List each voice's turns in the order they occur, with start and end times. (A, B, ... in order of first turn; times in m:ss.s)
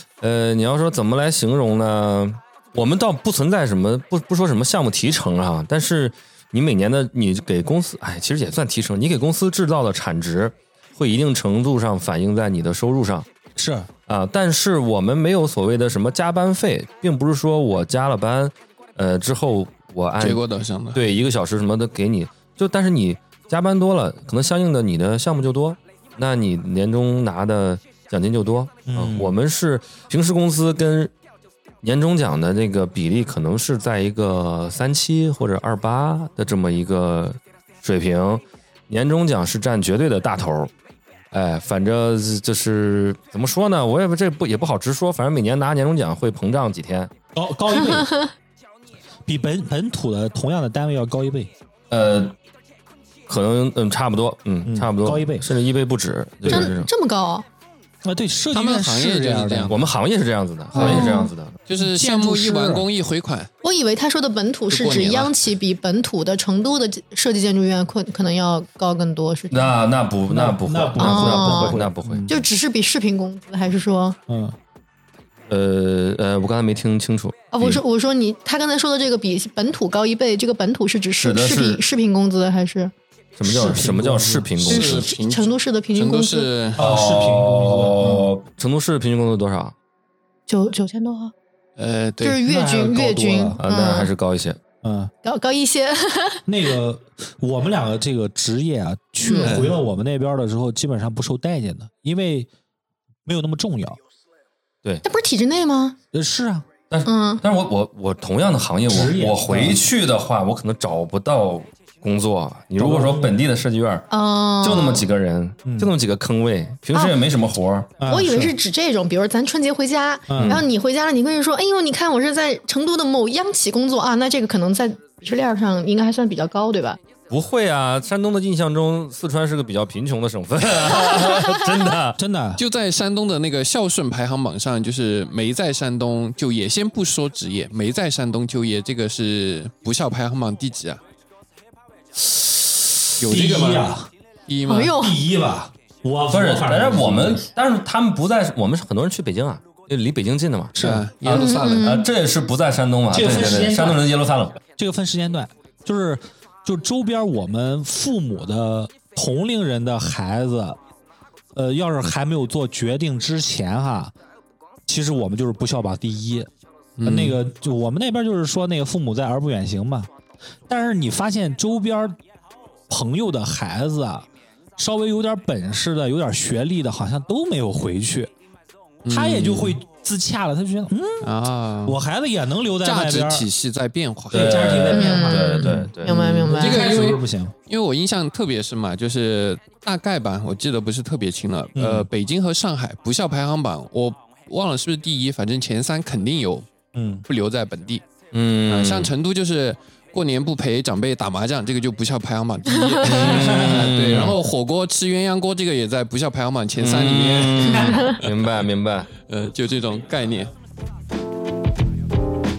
0:00.2-0:13.3 A
0:13.6-0:13.9 B
0:14.1-0:20.4 A
0:20.2-0:21.0 C
0:20.9-0:31.1 A
0:28.9-0:29.4 B
0:31.8-0:40.7 A
0:41.3-0:47.1 A
0:47.3-0:48.1 B
0:48.0-0:48.3 D
0:49.2-0:51.5 B
0:51.9-0:52.3 A
0:53.3-0:56.9 A
0:54.6-0:55.5 B
0:56.4-0:56.7 B
0:56.5-0:57.4 D
0:58.0-0:59.9 B
0:58.5-0:59.8 C
0:59.7-1:01.6 A
1:00.7-1:01.0 B
1:00.7-1:01.1 C
1:00.8-1:01.3 D
1:01.6-1:03.5 C
1:01.8-1:02.9 B
1:03.6-1:09.7 D
1:04.7-1:05.4 C
1:09.5-1:12.4 A
1:10.3-1:12.3 B
1:11.0-1:14.2 D
1:14.3-1:14.6 B
1:15.5-1:17.8 A
1:17.5-1:22.9 D
1:21.2-1:21.8 A
1:23.4-1:25.1 A
1:23.4-1:24.5 B
1:24.6-1:26.8 C
1:24.7-1:26.5 D
1:26.8-1:28.3 B
1:26.8-1:29.7 A
1:30.5-1:31.3 D
1:31.8-1:32.4 C
1:32.2-1:34.1 D
1:32.4-1:33.6 B
1:33.6-1:34.6 A
1:34.8-1:35.1 B
1:35.2-1:36.4 D
1:36.4-1:42.5 B
1:39.2-1:39.6 D
1:39.4-1:39.7 C
1:43.2-1:44.0 B
1:45.0-1:46.0 D
1:46.1-1:46.6 B
1:46.9-1:54.1 A
1:47.0-1:47.4 D
1:48.9-1:49.8 B
1:52.8-1:53.4 B
1:54.1-1:55.1 D
1:54.6-1:57.9 A
1:55.6-1:55.9 B
1:58.0-1:58.5 B
1:58.0-2:07.0 D
2:00.3-2:00.6 B
2:07.3-2:12.2 A
2:12.2-2:12.6 B
2:12.6-2:21.0 C
2:22.2-2:24.1 B
2:23.2-2:23.9 C
2:24.5-2:25.0 C
2:24.6-2:25.2 D
2:24.9-2:27.4 B
2:26.3-2:34.6 A
2:30.8-2:31.1 B
2:30.8-2:32.0 C
2:31.3-2:32.0 D
2:33.1-2:34.0 B
2:34.8-2:40.8 B
2:41.5-2:44.1 B
2:44.9-2:46.5 B
2:47.0-2:47.4 C
2:47.0-2:50.1 B
2:50.7-2:52.2 B
2:52.9-2:58.3 B
2:59.0-2:59.8 C
2:59.1-3:03.5 B
3:01.2-3:02.0 C
3:02.8-3:04.9 C
3:04.3-3:05.9 B
3:04.3-3:06.4 A
3:04.9-3:06.9 D
3:05.6-3:16.7 C
3:06.4-3:07.5 B
3:11.7-3:12.1 B
3:16.9-3:17.2 B
3:17.3-3:18.0 C
3:18.3-3:19.1 A
3:18.7-3:28.3 C
3:23.1-3:24.3 A
3:23.1-3:24.4 B
3:26.8-3:29.1 A
3:27.7-3:28.0 B
3:29.2-3:30.5 C